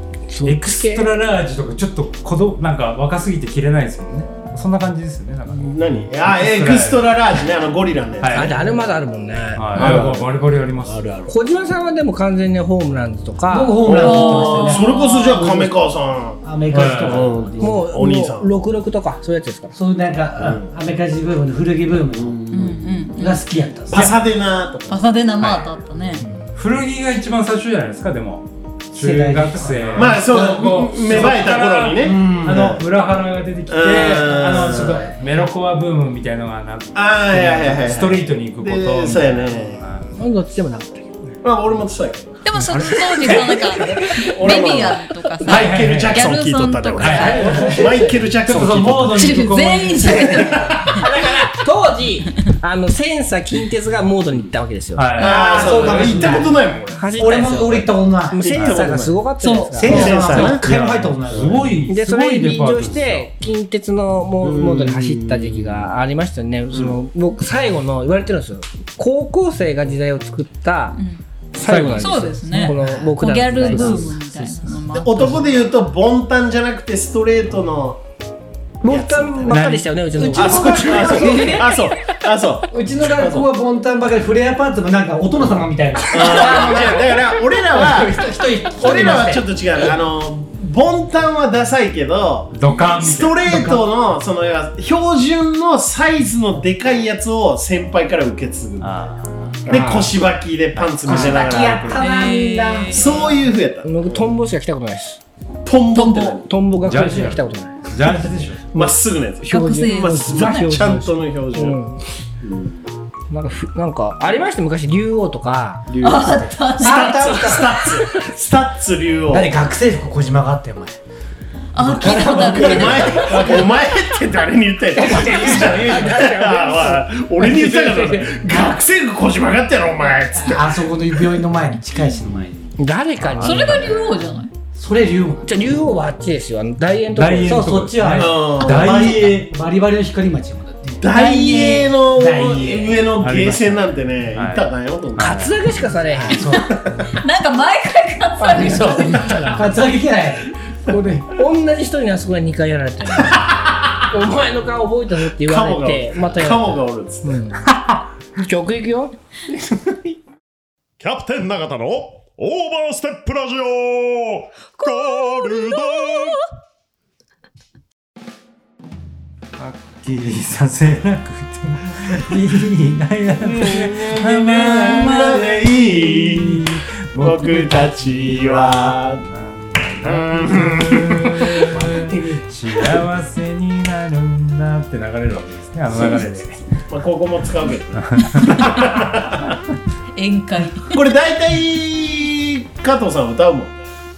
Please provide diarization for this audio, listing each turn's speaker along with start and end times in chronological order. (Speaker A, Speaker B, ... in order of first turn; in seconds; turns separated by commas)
Speaker A: 0.3-1.1, Speaker B: 0.4-7.1, Speaker C: 5.5-8.6, Speaker B: 8.2-8.6, Speaker A: 8.3-10.1, Speaker B: 9.5-11.1, Speaker C: 9.7-11.3, Speaker A: 11.3-13.8, Speaker D: 13.5-15.7, Speaker C: 13.8-18.5, Speaker E: 13.9-15.4, Speaker D: 16.4-17.8, Speaker B: 16.7-17.4, Speaker A: 17.6-19.7, Speaker D: 19.7-22.4, Speaker C: 20.4-20.7, Speaker C: 22.1-22.8, Speaker E: 22.5-23.4, Speaker D: 23.2-24.1, Speaker C: 23.9-25.0, Speaker E: 24.9-26.2, Speaker B: 26.5-40.2, Speaker D: 28.9-31.3, Speaker C: 29.9-32.8, Speaker D: 32.0-32.4, Speaker C: 33.7-35.1, Speaker D: 34.6-35.1, Speaker C: 36.9-39.8, Speaker A: 40.2-41.3, Speaker C: 41.4-49.4, Speaker E: 42.4-47.8, Speaker B: 45.4-46.3, Speaker B: 47.0-47.5, Speaker A: 47.1-48.3, Speaker D: 47.3-47.9, Speaker B: 48.4-50.5, Speaker E: 49.1-51.0, Speaker D: 50.1-50.8, Speaker A: 50.8-55.1, Speaker B: 55.0-56.0, Speaker C: 55.1-57.9, Speaker D: 55.2-56.5, Speaker A: 56.9-60.6, Speaker D: 57.1-58.5, Speaker C: 58.4-59.2, Speaker B: 58.5-58.9, Speaker E: 59.4-59.8, Speaker D: 59.5-61.8, Speaker C: 59.8-60.7, Speaker B: 60.0-63.3, Speaker A: 61.9-71.0, Speaker C: 64.4-65.9, Speaker A: 71.5-74.2, Speaker B: 71.6-72.7, Speaker E: 71.8-75.4, Speaker D: 72.7-73.1, Speaker B: 73.7-74.6, Speaker D: 73.8-74.1, Speaker C: 74.9-78.0, Speaker A: 78.8-81.7, Speaker C: 78.8-79.7, Speaker B: 79.5-79.9, Speaker D: 80.1-81.7, Speaker C: 80.3-83.5, Speaker D: 82.7-87.1, Speaker C: 86.1-99.0, Speaker A: 86.4-86.9, Speaker D: 87.7-89.5, Speaker B: 92.5-93.4, Speaker D: 93.4-93.8, Speaker B: 98.8-100.0, Speaker C: 99.7-102.0, Speaker A: 99.7-100.1, Speaker B: 100.8-101.4, Speaker D: 101.0-103.3, Speaker E: 101.9-103.3, Speaker C: 102.9-104.3, Speaker A: 103.8-105.2, Speaker C: 105.6-106.5, Speaker E: 105.9-106.3, Speaker A: 106.2-107.9, Speaker B: 106.8-108.7, Speaker C: 108.7-111.8, Speaker E: 109.5-110.7, Speaker A: 109.5-112.0, Speaker C: 112.4-112.8, Speaker A: 113.3-115.9, Speaker C: 115.9-119.5, Speaker E: 116.0-117.6, Speaker D: 116.2-117.9, Speaker D: 119.3-121.0, Speaker E: 121.7-123.6, Speaker D: 121.8-123.7, Speaker C: 122.3-130.9, Speaker D: 124.9-126.6, Speaker A: 125.1-128.3, Speaker D: 130.3-132.5, Speaker A: 132.8-134.1, Speaker B: 133.2-133.9, Speaker E: 133.4-134.5, Speaker D: 134.7-135.6, Speaker A: 135.4-137.8, Speaker B: 137.1-139.5, Speaker D: 137.4-143.1, Speaker C: 138.2-139.2, Speaker C: 141.0-145.4, Speaker B: 143.2-145.6, Speaker A: 145.2-146.5, Speaker D: 146.1-146.7, Speaker E: 146.4-149.4, Speaker A: 148.4-149.7, Speaker D: 149.3-151.3, Speaker A: 151.3-153.4, Speaker A: 154.1-157.7, Speaker C: 155.4-157.4, Speaker A: 158.3-159.1, Speaker C: 161.0-164.5, Speaker E: 164.8-166.4, Speaker C: 165.0-166.1, Speaker B: 169.6-186.8, Speaker C: 173.4-179.2, Speaker C: 180.0-181.7, Speaker D: 181.6-182.4, Speaker C: 186.9-189.6, Speaker B: 188.0-189.1, Speaker E: 190.1-191.0, Speaker C: 190.9-193.8